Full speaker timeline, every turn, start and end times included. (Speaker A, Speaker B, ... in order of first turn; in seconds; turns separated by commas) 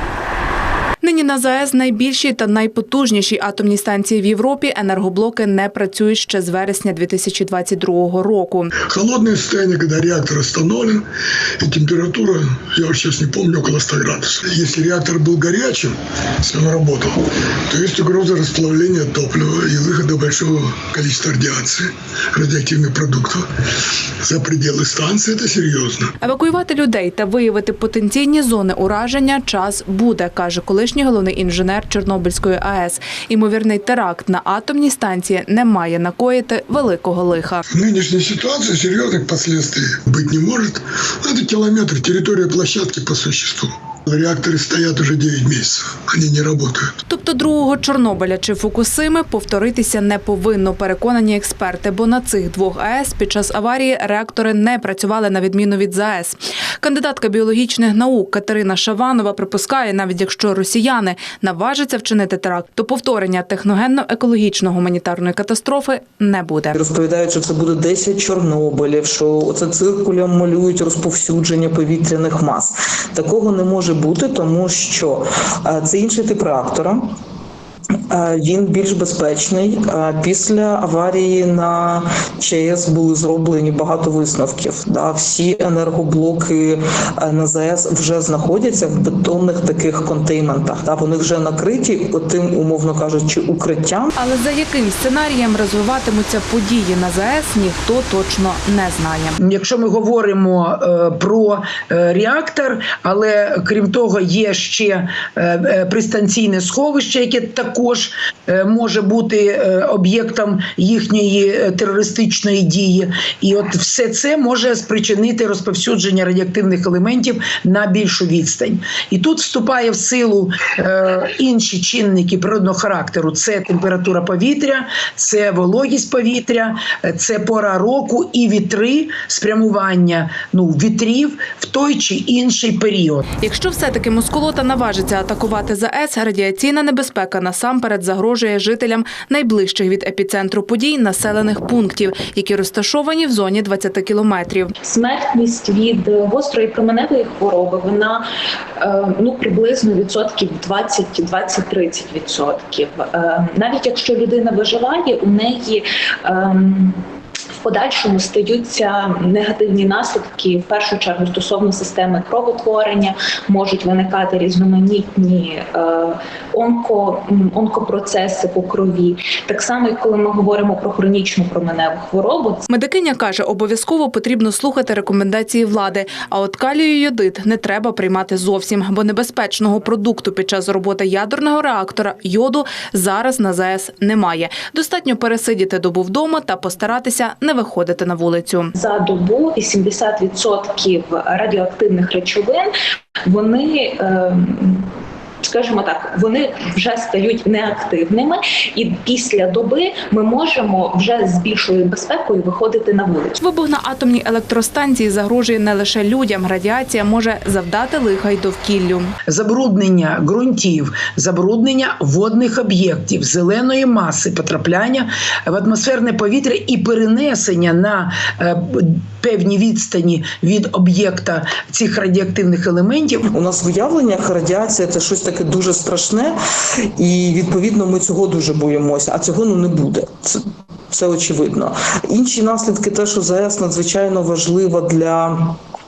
Speaker A: 1.0-8.7, Speaker B: 8.9-11.0, Speaker B: 11.6-15.9, Speaker B: 16.4-17.1, Speaker B: 17.7-21.8, Speaker B: 22.4-23.4, Speaker B: 24.3-26.0, Speaker A: 26.2-37.6, Speaker B: 37.8-40.8, Speaker B: 41.3-46.9, Speaker A: 47.1-66.8, Speaker C: 66.7-77.1, Speaker C: 78.1-94.1, Speaker A: 94.2-99.4, Speaker D: 99.4-133.2, Speaker A: 133.4-144.7, Speaker E: 144.8-148.2, Speaker E: 148.8-157.0, Speaker E: 157.6-172.6, Speaker A: 172.7-188.7, Speaker E: 188.8-192.7, Speaker E: 193.2-194.9, Speaker E: 195.4-203.4, Speaker A: 203.4-209.1, Speaker D: 209.3-223.2, Speaker C: 223.3-226.4, Speaker C: 227.0-235.6